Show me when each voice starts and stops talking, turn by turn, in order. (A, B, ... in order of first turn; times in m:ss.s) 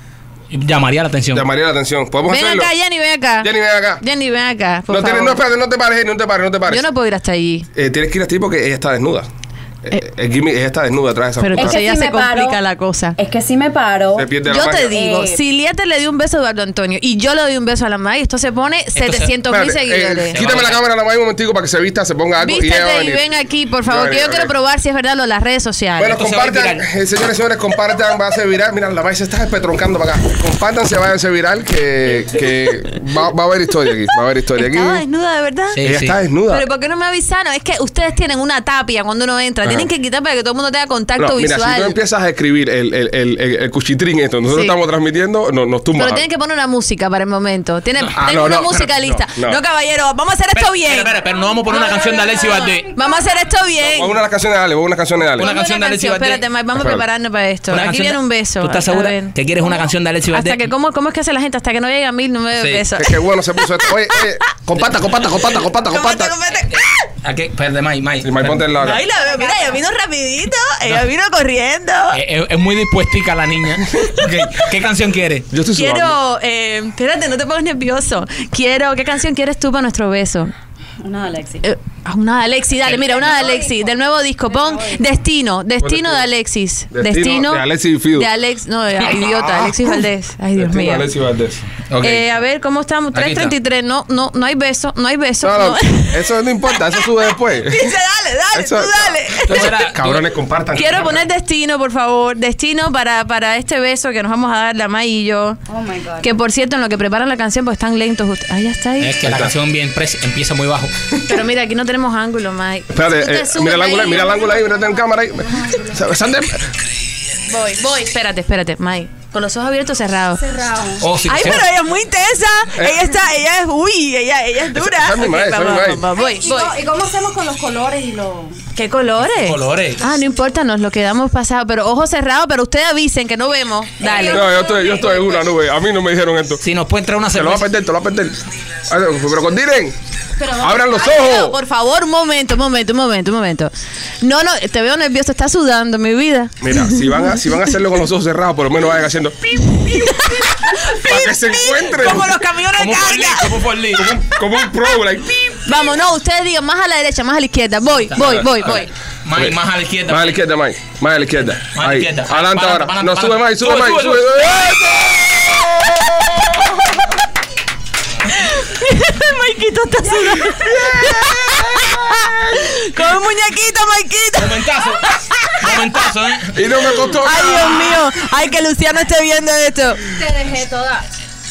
0:00.5-0:01.5 A
0:01.3-0:02.7 B
0:02.3-0:05.4 C
0:03.4-0:04.0 B
0:04.9-0:06.9 B
0:06.7-0:07.7 C
0:07.7-0:09.3 B
0:09.8-0:11.8 B
0:11.4-0:13.2 C
0:11.5-0:12.6 D
0:13.2-0:14.3 D
0:14.2-0:15.0 B
0:14.5-0:20.4 C
0:14.8-0:15.4 D
0:19.0-0:19.3 A
0:19.5-0:23.2 B
0:20.3-0:20.8 A
0:22.4-0:26.2 C
0:23.8-0:24.5 B
0:26.0-0:35.0 B
0:26.1-0:26.8 A
0:34.6-0:35.8 C
0:35.8-0:36.2 A
0:35.8-0:36.6 B
0:36.5-0:42.0 C
0:41.2-0:46.2 B
0:44.5-0:44.8 C
0:46.0-0:51.2 C
0:48.2-0:49.6 B
0:50.6-0:52.9 A
0:51.3-0:53.4 D
0:51.7-0:54.2 C
0:53.8-0:55.5 B
0:55.4-0:59.4 C
0:55.4-0:56.4 A
0:56.8-0:57.0 B
0:57.7-1:00.7 A
1:00.3-1:04.5 C
1:02.6-1:02.8 A
1:03.0-1:06.3 B
1:05.8-1:07.1 C
1:06.7-1:08.7 A
1:08.2-1:09.0 B
1:08.8-1:12.2 C
1:08.8-1:09.8 D
1:12.1-1:15.5 A
1:14.0-1:14.6 B
1:15.5-1:16.2 B
1:15.7-1:20.5 C
1:21.0-1:21.6 D
1:21.6-1:31.1 C
1:22.9-1:23.9 D
1:24.5-1:25.0 D
1:25.8-1:26.2 B
1:26.9-1:28.3 B
1:29.2-1:30.0 B
1:30.6-1:31.6 B
1:31.9-1:32.3 A
1:32.0-1:39.7 C
1:33.1-1:33.5 A
1:35.4-1:38.0 B
1:38.5-1:41.2 B
1:39.5-1:40.3 A
1:40.7-1:45.6 C
1:45.7-1:46.3 D
1:46.2-1:49.2 C
1:49.0-1:50.9 A
1:49.2-1:49.6 B
1:51.2-1:54.8 C
1:52.9-1:56.7 B
1:57.5-2:00.4 C
2:00.4-2:01.0 D
2:01.0-2:01.7 A
2:01.2-2:06.7 C
2:02.8-2:03.1 B
2:04.7-2:06.1 B
2:06.1-2:08.6 D
2:08.7-2:14.5 C
2:09.2-2:10.0 A
2:14.0-2:15.5 D
2:14.2-2:16.6 B
2:16.6-2:17.7 A
2:17.3-2:20.0 B
2:20.4-2:27.3 C
2:20.5-2:21.6 B
2:26.6-2:30.1 B
2:29.7-2:33.6 C
2:30.8-2:32.3 B
2:32.0-2:34.2 A
2:34.0-2:35.7 B
2:35.6-2:38.9 C
2:38.2-2:40.4 A
2:39.4-2:46.8 B
2:41.7-2:44.8 A
2:45.0-2:45.8 C
2:48.3-2:55.8 C
2:50.5-2:52.6 B
2:54.4-2:56.7 A
2:56.5-2:58.0 B
2:57.2-3:00.1 C
3:00.1-3:01.1 D